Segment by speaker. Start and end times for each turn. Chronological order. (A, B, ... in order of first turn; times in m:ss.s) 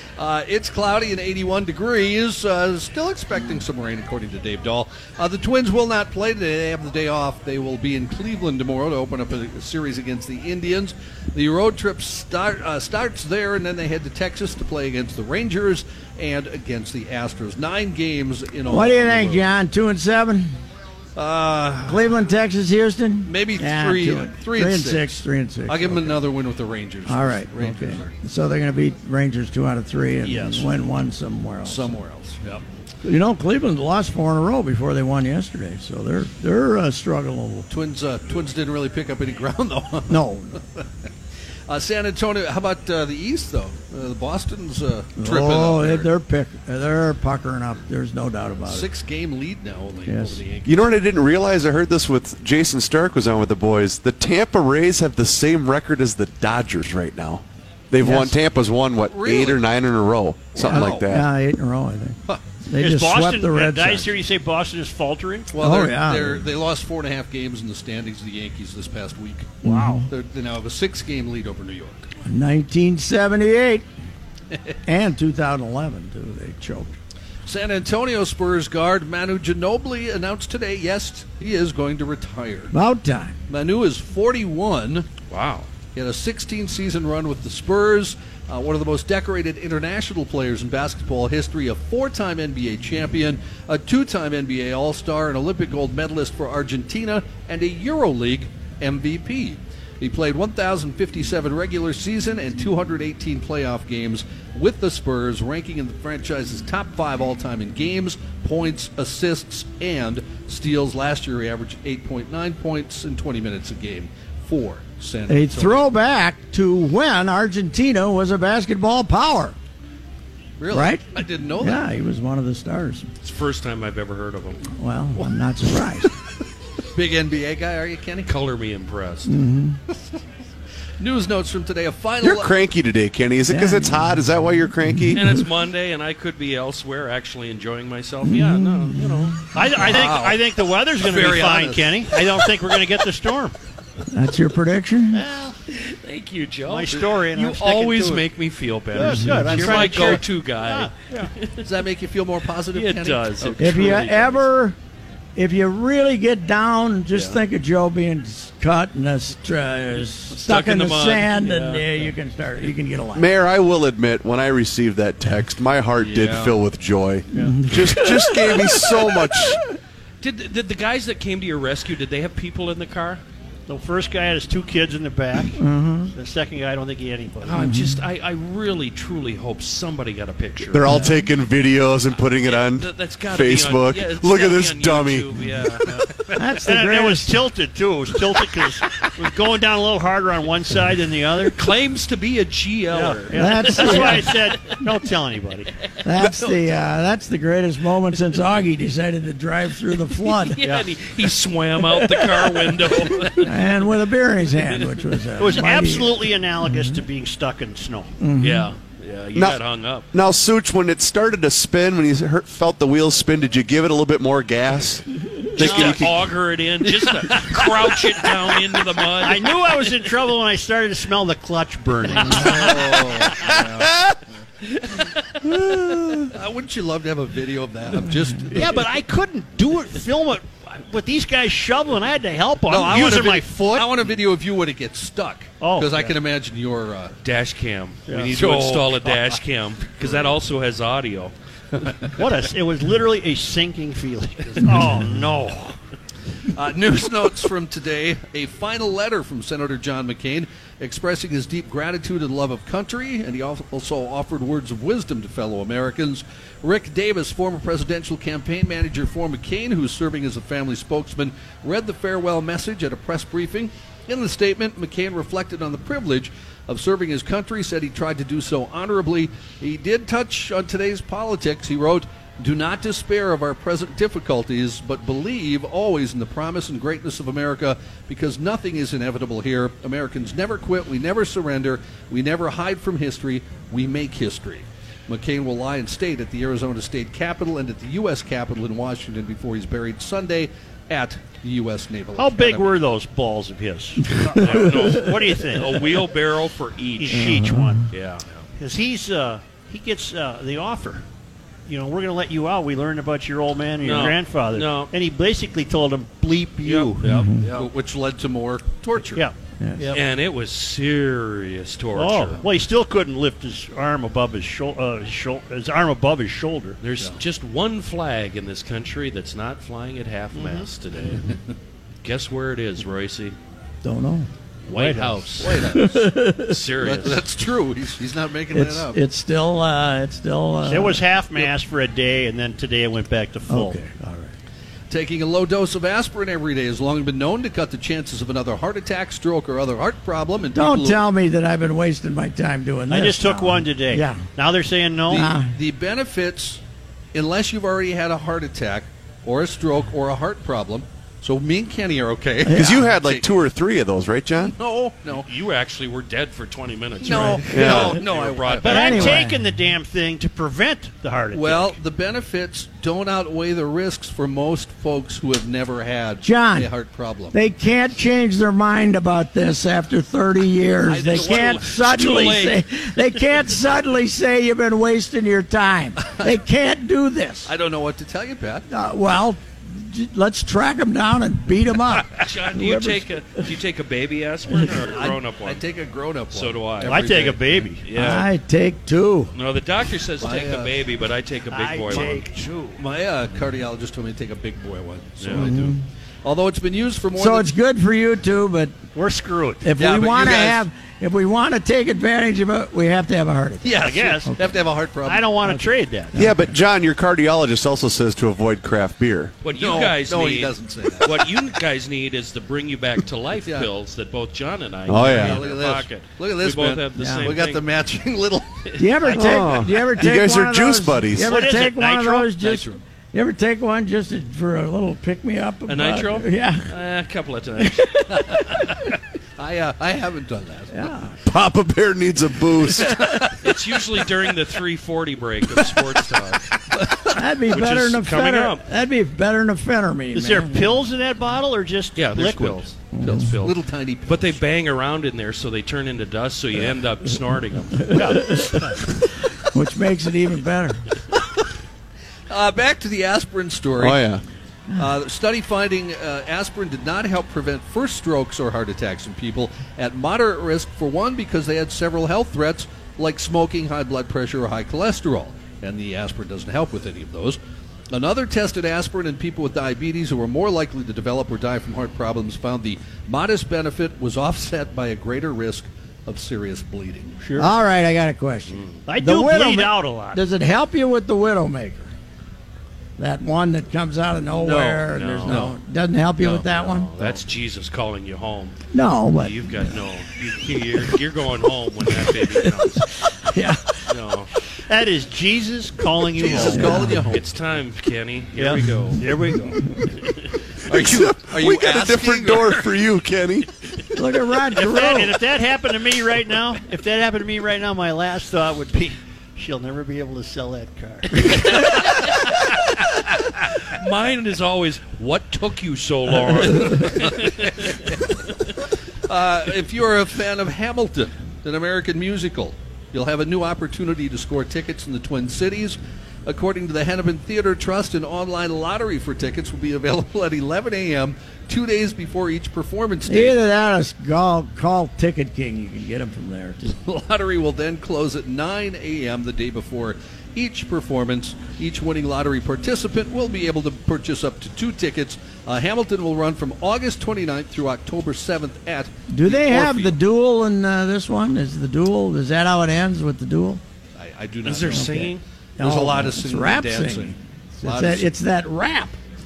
0:00.2-0:19.5 A
0:18.7-0:20.6 B
0:21.2-0:22.1 A
0:21.8-0:26.2 B
0:23.2-0:28.1 A
0:27.0-0:32.0 B
0:30.2-0:30.7 A
0:31.6-0:32.6 A
0:33.0-0:37.6 B
0:37.7-0:40.8 A
0:40.1-0:40.6 B
0:41.7-0:46.1 A
0:45.2-0:48.9 B
0:48.6-0:51.0 A
0:50.0-0:50.4 B
0:50.6-1:01.2 C
0:58.0-0:58.4 B
0:58.9-0:59.7 A
1:00.5-1:01.1 A
1:00.6-1:04.1 B
1:02.8-1:05.5 D
1:05.5-1:12.1 A
1:05.6-1:06.4 B
1:09.6-1:10.0 B
1:09.7-1:09.9 D
1:12.2-1:13.9 B
1:14.8-1:17.0 B
1:17.4-1:22.7 A
1:22.7-1:23.4 B
1:23.5-1:25.1 A
1:25.3-1:25.7 E
1:25.9-1:55.9 A
1:55.3-1:59.6 B
2:00.6-2:01.8 A
2:00.7-2:01.1 B
2:01.6-2:03.1 B
2:03.2-2:04.6 E
2:04.7-2:06.1 B
2:06.9-2:08.3 A
2:08.2-2:09.3 E
2:09.2-2:09.8 B
2:11.0-2:12.5 A
2:12.2-2:15.2 C
2:13.5-2:15.4 B
2:15.1-2:19.4 E
2:18.2-2:19.3 B
2:19.5-2:23.6 D
2:19.7-2:22.2 A
2:24.1-2:25.2 B
2:25.1-2:25.6 D
2:25.7-2:31.7 E
2:26.7-2:28.2 D
2:28.9-2:31.3 D
2:29.0-2:29.4 B
2:29.5-2:30.2 A
2:31.6-2:34.0 A
2:32.7-2:34.4 E
2:33.6-2:34.8 B
2:35.4-2:43.3 B
2:40.3-2:42.1 E
2:43.1-2:49.6 C
2:46.0-2:46.6 A
2:47.3-2:49.6 B
2:50.2-2:53.2 E
2:53.7-2:55.6 D
2:55.6-2:56.1 B
2:56.1-2:57.6 D
2:57.4-3:01.1 E
2:57.5-2:58.0 B
3:00.7-3:05.3 C
3:00.9-3:01.2 B
3:02.2-3:06.0 E
3:06.4-3:07.3 B
3:06.6-3:11.5 D
3:11.5-3:14.8 E
3:12.9-3:15.7 D
3:13.3-3:14.3 B
3:16.0-3:20.6 B
3:20.3-3:23.6 E
3:21.8-3:27.0 B
3:25.4-3:28.1 D
3:28.2-3:28.7 B
3:28.4-3:30.1 E
3:29.3-3:29.6 C
3:30.1-3:36.2 C
3:35.6-3:39.9 E
3:35.6-3:36.0 D
3:39.2-3:43.1 D
3:42.2-3:44.2 A
3:42.4-3:42.7 E
3:46.3-3:48.9 A
3:48.5-3:53.9 D
3:52.7-3:57.2 A
3:55.6-3:56.1 D
3:57.2-4:01.3 E
3:58.1-3:58.3 D
3:58.3-3:59.4 A
4:00.0-4:00.3 A
4:02.1-4:05.7 D
4:04.5-4:05.0 A
4:06.5-4:52.7 A
4:52.2-4:56.0 D
4:54.4-4:57.3 E
4:57.0-4:57.9 D
4:57.1-4:57.8 B
4:57.9-4:58.2 E
4:58.6-5:01.0 D
5:01.7-5:07.1 D
5:03.8-5:04.9 E
5:06.6-5:07.7 E
5:07.0-5:09.2 A
5:07.0-5:07.5 B
5:09.1-5:10.0 D
5:09.9-5:12.4 E
5:11.9-5:16.8 D
5:16.8-5:21.3 E
5:20.3-5:20.7 D
5:22.0-5:23.3 E
5:23.8-5:24.3 B
5:24.7-5:27.2 E
5:24.7-5:25.0 D
5:24.8-5:26.1 A
5:25.7-5:26.6 B
5:26.8-5:29.0 A
5:28.5-5:31.0 B
5:30.6-5:33.8 D
5:33.5-5:34.3 B
5:34.9-5:41.0 A
5:40.5-5:44.2 B
5:42.9-5:45.3 D
5:45.1-5:46.6 A
5:45.1-5:45.5 B
5:47.1-5:53.3 A
5:52.4-5:52.9 B
5:52.5-5:54.5 C
5:54.5-5:55.3 A
5:55.2-5:59.2 E
5:57.0-5:59.0 A
5:57.5-5:57.9 C
5:58.6-5:59.4 B
5:58.6-6:01.8 D
6:01.3-6:07.3 A
6:06.2-6:06.7 B
6:07.3-6:17.5 B
6:10.9-6:12.3 A
6:10.9-6:12.6 E
6:17.4-6:18.6 A
6:18.7-6:23.1 B
6:22.2-6:25.6 E
6:24.7-6:27.5 A
6:26.3-6:27.0 E
6:26.9-6:27.8 D
6:27.8-6:28.3 E
6:27.9-6:29.3 B
6:29.3-6:32.2 E
6:30.2-6:30.8 A
6:31.5-6:32.8 D
6:32.8-6:37.5 A
6:35.2-6:35.5 E
6:35.3-6:35.8 B
6:37.2-6:38.7 B
6:38.9-6:39.7 D
6:39.6-6:43.7 B
6:39.8-6:40.6 A
6:43.6-6:45.3 A
6:43.8-6:44.4 D
6:45.0-6:46.2 D
6:46.1-6:46.5 B
6:46.1-6:49.3 C
6:49.4-6:57.6 E
6:49.5-6:51.4 A
6:53.4-6:53.7 A
6:54.9-6:55.4 C
6:54.9-6:58.7 A
6:57.0-6:57.4 B
6:58.8-7:06.7 B
6:59.2-7:01.3 C
7:01.2-7:02.6 D
7:05.7-7:08.5 E
7:07.6-7:08.0 B
7:09.4-7:10.9 A
7:10.7-7:11.1 B
7:11.2-7:12.9 C
7:12.8-7:13.7 A
7:13.4-7:16.5 E
7:16.7-7:17.2 A
7:17.1-7:20.7 B
7:17.5-7:18.6 E
7:20.1-7:22.6 D
7:22.0-7:28.4 E
7:22.9-7:23.3 B
7:23.1-7:24.4 A
7:27.9-7:28.4 B
7:29.5-7:30.8 B
7:32.3-7:34.2 A
7:33.8-7:34.2 C
7:34.7-7:47.4 A
7:47.9-7:57.4 A
7:57.4-8:01.9 B
7:58.9-8:00.2 D
8:03.0-8:06.9 B
8:04.4-8:05.5 E
8:05.2-8:05.5 A
8:06.2-8:08.6 E
8:08.7-8:09.8 B
8:09.2-8:12.9 E
8:11.9-8:13.8 B
8:13.9-8:14.3 E
8:14.7-8:16.8 D
8:16.2-8:17.2 A
8:16.5-8:17.0 B
8:16.7-8:19.0 E
8:18.4-8:19.6 D
8:20.7-8:22.8 A
8:20.7-8:23.4 C
8:23.9-8:25.2 B
8:24.6-8:31.5 D
8:31.6-8:32.4 E
8:33.7-8:37.8 E
8:39.1-8:53.4 A
8:53.0-8:56.7 B
8:56.6-9:10.0 A
9:09.1-9:13.6 B
9:14.0-9:18.1 A
9:14.4-9:15.2 E
9:14.7-9:19.0 B